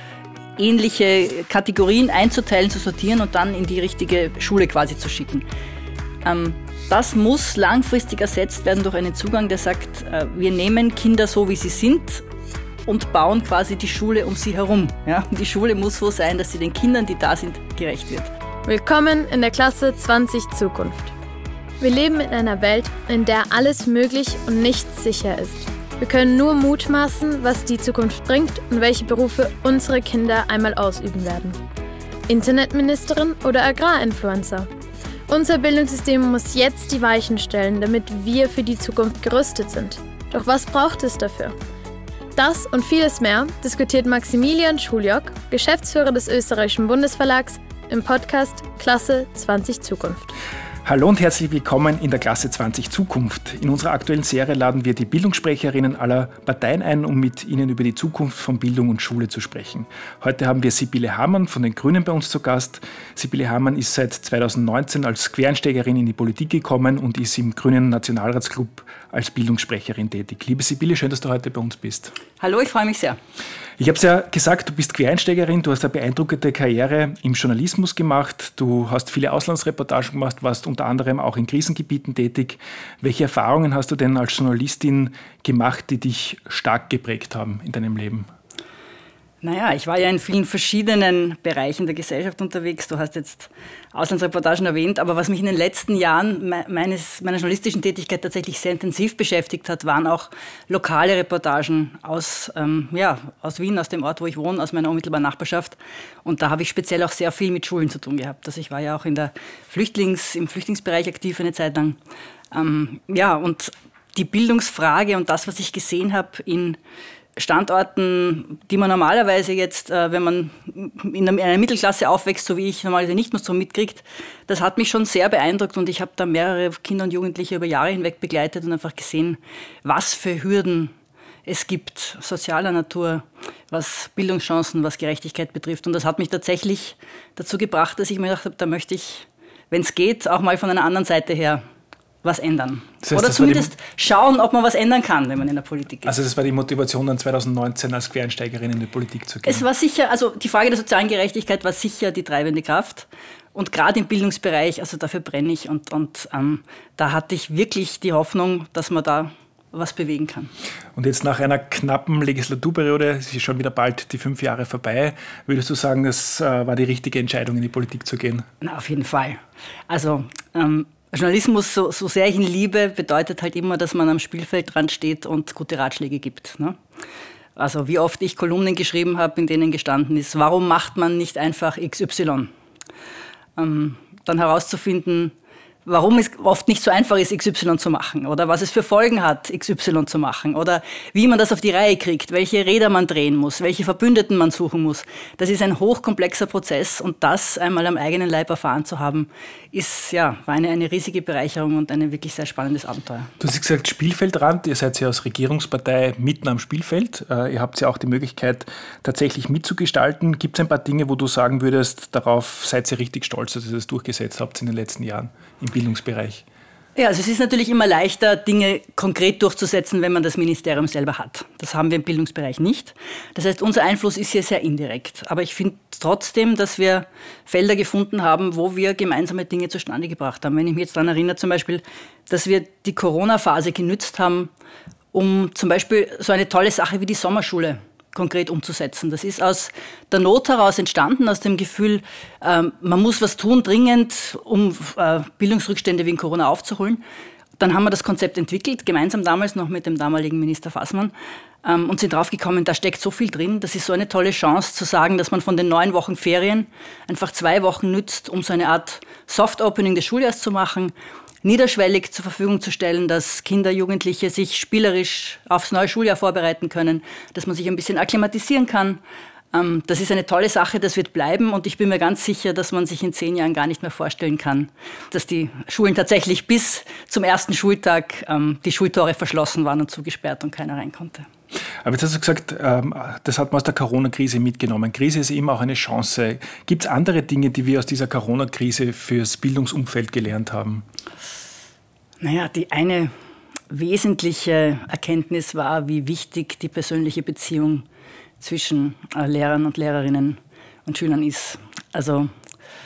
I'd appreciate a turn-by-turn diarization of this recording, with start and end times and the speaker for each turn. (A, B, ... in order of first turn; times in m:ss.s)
0:00.6-0:05.4 A
0:06.2-0:12.2 A
0:12.8-0:18.3 A
0:18.6-0:21.1 B
0:21.8-0:31.6 B
0:32.3-0:34.7 B
0:35.3-0:41.5 B
0:42.3-0:50.3 B
0:50.8-1:12.1 C
1:12.4-1:13.2 A
1:13.8-1:28.3 C
1:29.4-1:52.0 A
1:52.5-1:56.8 A
1:57.4-2:10.9 A
2:11.4-2:21.6 A
2:22.2-2:26.1 A
2:23.0-2:23.7 C
2:26.0-2:29.6 C
2:29.4-2:40.5 A
2:40.9-2:48.5 C
2:48.6-2:56.8 A
2:57.6-3:02.5 A
3:03.6-3:05.3 A
3:05.8-3:23.3 A
3:23.4-3:36.4 C
3:37.0-3:54.5 A
3:55.1-4:07.0 A
4:07.6-4:11.1 A
4:11.6-4:29.0 A
4:29.5-4:41.3 A
4:41.8-4:50.8 C
4:52.2-4:53.1 A
4:53.7-4:57.8 A
4:58.4-5:02.3 A